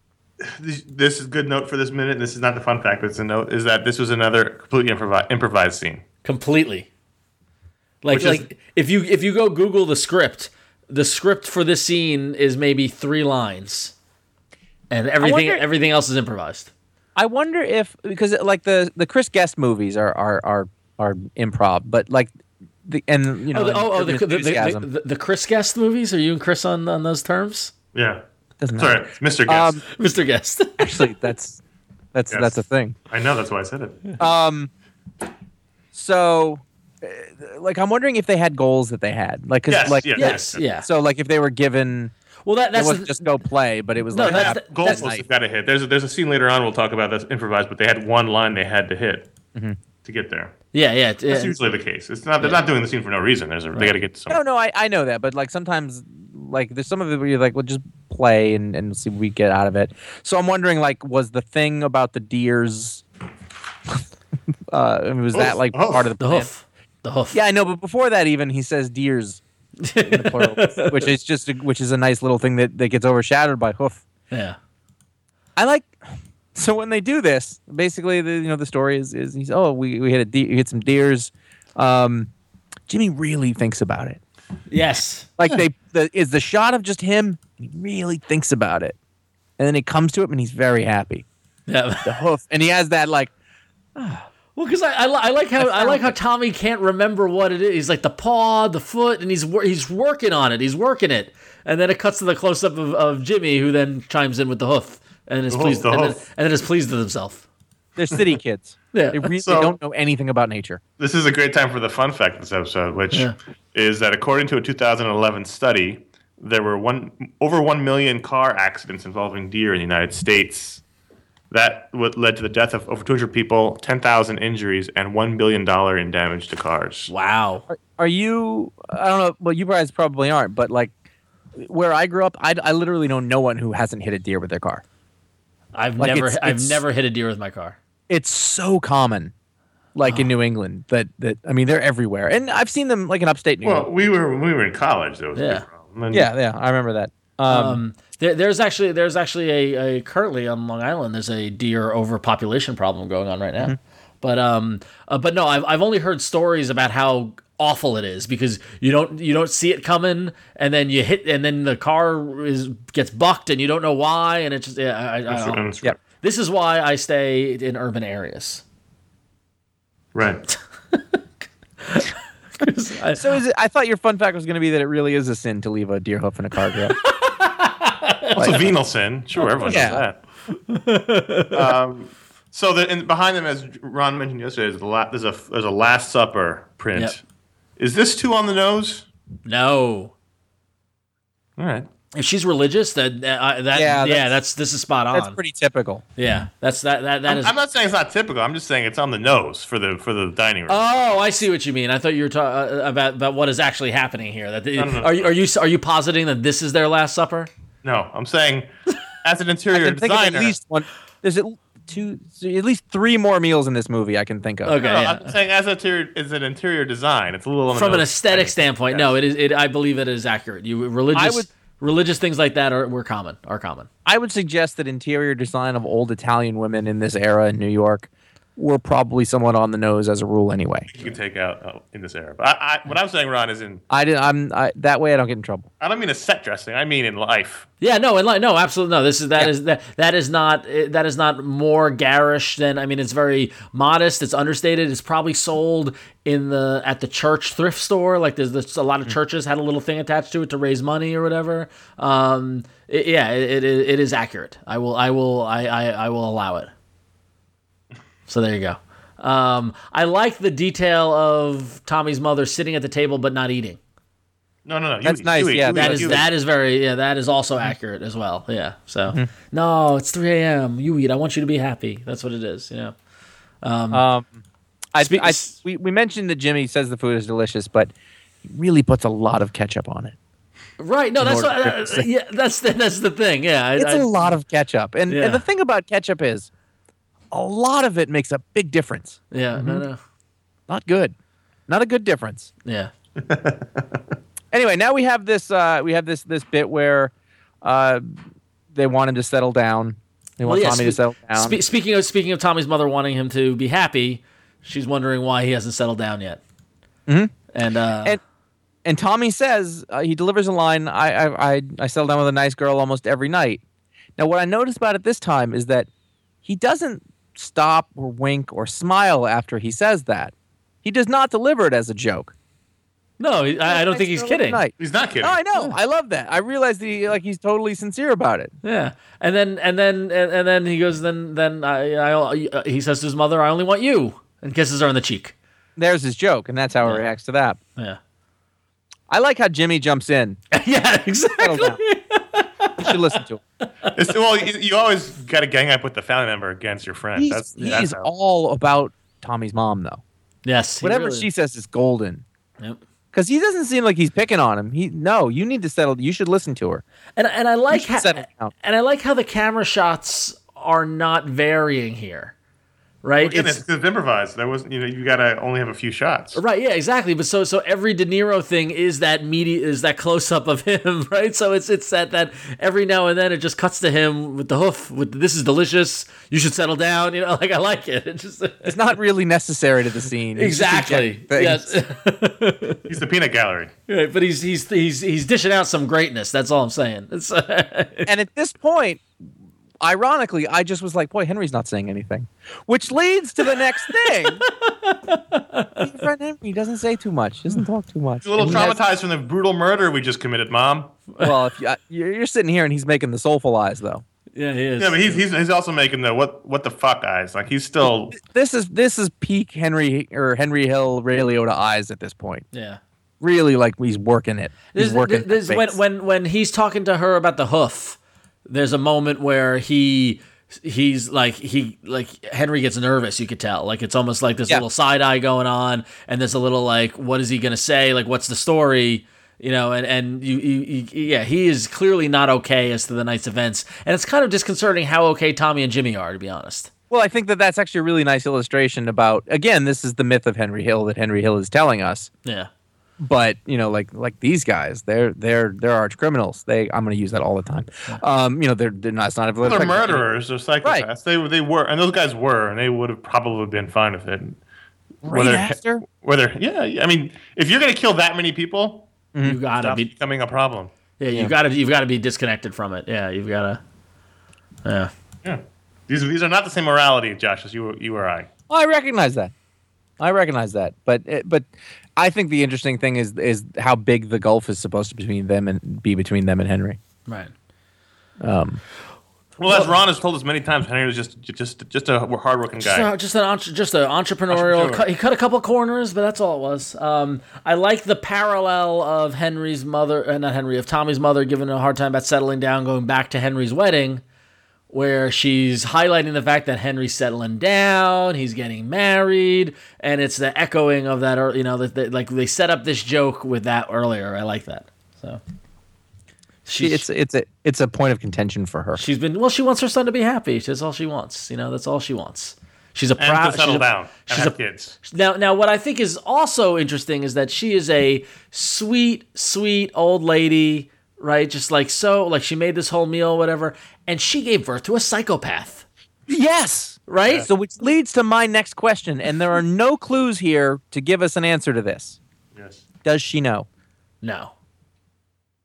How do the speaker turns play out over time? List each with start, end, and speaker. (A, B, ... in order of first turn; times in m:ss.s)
0:00.4-0:06.0 A
0:06.2-0:06.9 B
0:08.0-0:13.9 B
0:08.1-0:08.4 A
0:08.2-0:08.4 C
0:14.9-0:16.7 B
0:15.2-0:15.6 C
0:17.2-0:22.3 C
0:22.8-0:24.9 C
0:23.5-0:27.7 B
0:27.9-0:28.2 A
0:28.6-0:29.8 C
0:28.7-0:29.8 A
0:29.9-0:31.1 B
0:30.8-0:31.6 C
0:32.1-0:33.0 C
0:32.3-0:34.1 A
0:34.2-0:34.7 C
0:35.9-0:42.1 C
0:39.7-0:40.6 A
0:40.1-0:40.9 B
0:42.4-0:43.4 B
0:42.7-0:45.2 C
0:44.1-0:45.1 B
0:44.2-0:49.3 A
0:50.0-0:50.5 A
0:50.7-0:51.5 B
0:51.3-0:54.4 A
0:54.3-1:03.0 C
1:04.7-1:06.5 C
1:05.3-1:06.1 A
1:06.2-1:07.4 B
1:07.3-1:09.4 C
1:09.8-1:11.1 B
1:10.0-1:14.0 C
1:14.3-1:14.6 B
1:15.6-1:16.0 C
1:16.5-1:22.3 C
1:22.9-1:24.2 C
1:24.7-1:25.3 B
1:25.4-1:29.0 C
1:29.6-1:31.2 C
1:31.7-1:32.2 B
1:32.0-1:33.3 C
1:34.0-1:34.3 C
1:34.6-1:47.4 B
1:35.6-1:36.2 C
1:45.5-1:46.2 A
1:48.0-1:50.8 C
1:48.9-1:49.3 B
1:49.4-1:49.8 A
1:51.0-2:00.8 A
2:01.5-2:07.1 A
2:07.1-2:07.6 B
2:07.7-2:10.9 C
2:11.6-2:14.8 C
2:15.7-2:17.8 B
2:16.0-2:16.8 C
2:18.1-2:19.3 C
2:19.9-2:23.9 C
2:20.0-2:20.3 B
2:23.6-2:26.3 A
2:25.4-2:25.6 B
2:26.1-2:27.8 C
2:27.5-2:48.6 B
2:45.3-2:45.9 A
2:50.1-2:50.5 A
2:51.9-2:53.4 B
2:53.1-2:57.0 C
2:56.7-2:58.6 B
2:58.3-2:58.7 C
2:58.4-3:00.2 A
2:59.4-2:59.9 B
2:59.6-3:00.0 C
3:00.5-3:01.6 B
3:01.5-3:07.2 A
3:07.8-3:09.0 A
3:09.4-3:10.1 B
3:11.6-3:11.9 A
3:12.1-3:15.4 B
3:13.7-3:14.4 C
3:15.1-3:16.0 C
3:16.2-3:17.5 B
3:17.3-3:20.8 A
3:20.7-3:27.5 B
3:24.8-3:25.3 A
3:27.8-3:28.7 A
3:29.2-3:30.6 A
3:29.7-3:34.8 C
3:34.6-3:35.4 B
3:34.8-3:39.2 A
3:37.7-3:43.9 B
3:41.1-3:41.5 C
3:44.0-3:50.9 C
3:50.9-3:53.8 A
3:53.9-3:55.7 C
3:55.8-3:57.7 A
3:57.8-4:16.7 B
4:18.3-4:23.8 B
4:24.6-4:26.2 A
4:25.0-4:26.3 C
4:25.7-4:32.9 B
4:33.6-4:34.0 B
4:33.9-4:34.4 C
4:34.9-4:37.9 C
4:35.0-4:35.5 B
4:38.4-4:40.2 C
4:40.8-4:44.4 B
4:41.2-4:42.1 C
4:43.8-4:46.5 C
4:45.1-4:45.4 B
4:47.3-4:49.8 C
4:49.3-4:50.0 B
4:50.7-4:51.1 C
4:51.7-4:52.5 C
4:52.6-4:52.9 B
4:53.2-4:53.8 A
4:54.5-4:57.1 C
4:57.6-5:01.6 C
5:00.4-5:06.4 B
5:07.1-5:07.3 C
5:07.5-5:08.2 B
5:08.8-5:13.6 C
5:14.2-5:15.9 C
5:16.4-5:22.3 C
5:23.2-5:24.6 B
5:23.6-5:28.5 C
5:24.8-5:25.4 A
5:28.6-5:35.3 B
5:35.8-5:37.6 C
5:39.1-5:40.4 C
5:40.5-5:43.0 B
5:41.4-5:41.8 C
5:42.8-5:43.4 C
5:43.9-5:48.0 A
5:47.2-5:50.0 C
5:47.6-5:47.8 B
5:50.4-5:51.3 B
5:50.8-5:52.2 C
5:53.1-5:56.8 C
5:57.2-6:02.3 B
5:57.7-5:58.5 C
6:03.0-6:03.6 B
6:03.2-6:06.4 A
6:06.3-6:18.9 B
6:18.6-6:21.8 C
6:20.3-6:22.9 B
6:22.9-6:23.7 A
6:23.9-6:28.1 B
6:28.1-6:29.1 C
6:29.8-6:34.4 C
6:33.5-6:35.9 B
6:35.8-6:38.8 C
6:38.2-6:40.9 A
6:38.4-6:38.7 B
6:41.2-6:44.0 C
6:44.3-6:45.2 B
6:44.8-6:48.2 A
6:48.1-6:52.4 C
6:52.5-6:52.8 B
6:53.2-6:55.8 C
6:54.7-7:16.7 B
7:16.9-7:22.1 C
7:23.0-7:30.0 C
7:29.4-7:34.4 A
7:35.0-7:35.8 C
7:35.1-7:38.9 A
7:39.1-7:39.4 C
7:39.2-7:39.9 B
7:39.5-7:40.7 A
7:41.0-7:43.6 B
7:44.6-7:44.9 B
7:45.2-7:48.3 A
7:48.5-7:49.3 C
7:50.0-7:56.8 C
7:57.0-7:57.3 B
7:58.2-7:58.6 C
7:59.4-8:02.9 A
8:02.6-8:14.0 B
8:04.3-8:04.8 A
8:14.7-8:25.2 B
8:26.4-8:26.9 B
8:26.6-8:28.8 C
8:28.8-8:45.6 B
8:33.0-8:34.8 A
8:46.1-8:52.0 C
8:46.9-8:47.3 B
8:52.3-8:52.6 A
8:52.8-8:53.5 C
8:54.0-8:54.3 B